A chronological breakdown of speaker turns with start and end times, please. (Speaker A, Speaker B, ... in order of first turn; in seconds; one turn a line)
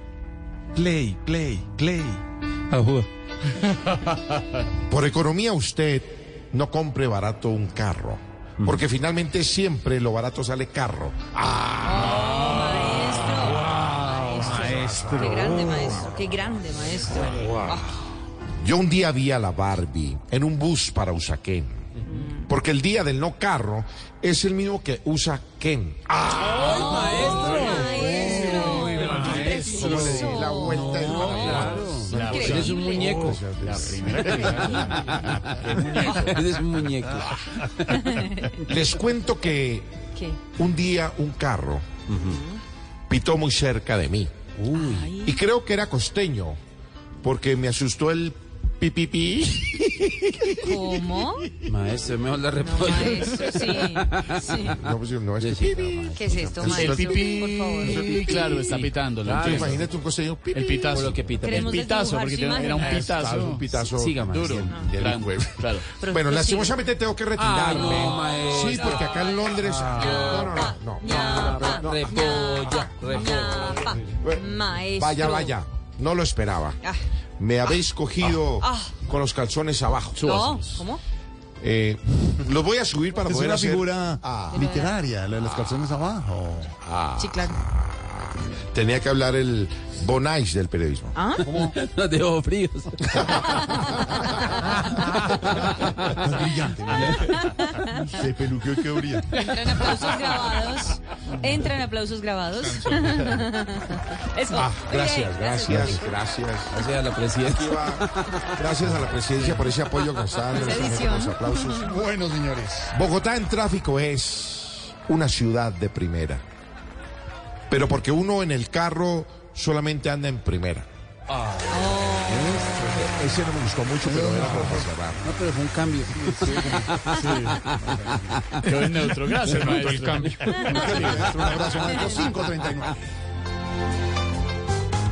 Speaker A: 0.8-2.2
Speaker B: 2.7-3.1
Speaker C: 4.9-12.2
Speaker D: 11.8-18.0
Speaker A: 14.7-15.3
Speaker C: 18.6-21.9
Speaker D: 22.1-22.5
Speaker C: 22.5-27.2
Speaker D: 26.4-33.3
Speaker B: 26.5-29.7
Speaker C: 28.0-28.5
Speaker E: 28.1-28.9
Speaker F: 28.4-29.0
Speaker C: 29.0-32.1
Speaker A: 29.0-29.9
Speaker B: 30.6-37.9
Speaker F: 31.4-36.4
Speaker D: 34.4-35.0
Speaker D: 36.0-36.4
Speaker D: 37.9-38.6
Speaker C: 38.6-39.9
Speaker D: 40.1-40.4
Speaker C: 40.6-41.9
Speaker B: 42.1-42.4
Speaker D: 42.3-42.6
Speaker C: 43.1-44.3
Speaker B: 44.6-45.1
Speaker D: 44.7-45.4
Speaker C: 45.2-46.6
Speaker C: 47.2-51.1
Speaker D: 50.6-51.6
Speaker B: 51.7-54.8
Speaker D: 52.6-54.8
Speaker C: 54.7-57.3
Speaker B: 55.4-57.0
Speaker D: 56.2-58.5
Speaker F: 56.7-59.9
Speaker B: 57.8-59.8
Speaker C: 59.4-61.0
Speaker F: 60.5-65.9
Speaker B: 60.9-61.8
Speaker D: 61.4-63.1
Speaker C: 62.8-72.9
Speaker B: 64.0-64.6
Speaker D: 66.0-66.8
Speaker B: 67.4-69.1
Speaker D: 67.7-75.5
Speaker B: 71.0-73.9
Speaker C: 74.1-76.8
Speaker C: 77.4-80.4
Speaker D: 78.6-78.9
Speaker F: 80.2-80.8
Speaker D: 80.2-81.0
Speaker C: 81.6-84.6
Speaker E: 83.2-86.7
Speaker D: 84.5-84.9
Speaker C: 86.8-91.2
Speaker D: 87.2-87.7
Speaker D: 91.2-91.5
Speaker E: 91.4-91.8
Speaker B: 91.6-96.2
Speaker D: 93.2-94.8
Speaker E: 96.2-97.4
Speaker D: 97.2-98.0
Speaker E: 98.0-99.4
Speaker D: 99.3-106.0
Speaker C: 104.5-106.8
Speaker B: 106.7-108.7
Speaker C: 107.4-112.0
Speaker D: 110.5-112.0
Speaker E: 111.9-112.9
Speaker C: 112.9-116.4
Speaker C: 117.7-120.9
Speaker D: 121.7-123.4
Speaker B: 122.3-122.8
Speaker C: 122.8-125.2
Speaker E: 124.0-124.9
Speaker B: 125.2-128.6
Speaker E: 126.1-128.4
Speaker F: 127.1-127.6
Speaker F: 128.6-131.3
Speaker A: 129.5-130.7
Speaker D: 130.4-131.0
Speaker E: 130.6-132.9
Speaker B: 131.2-131.6
Speaker D: 131.6-132.4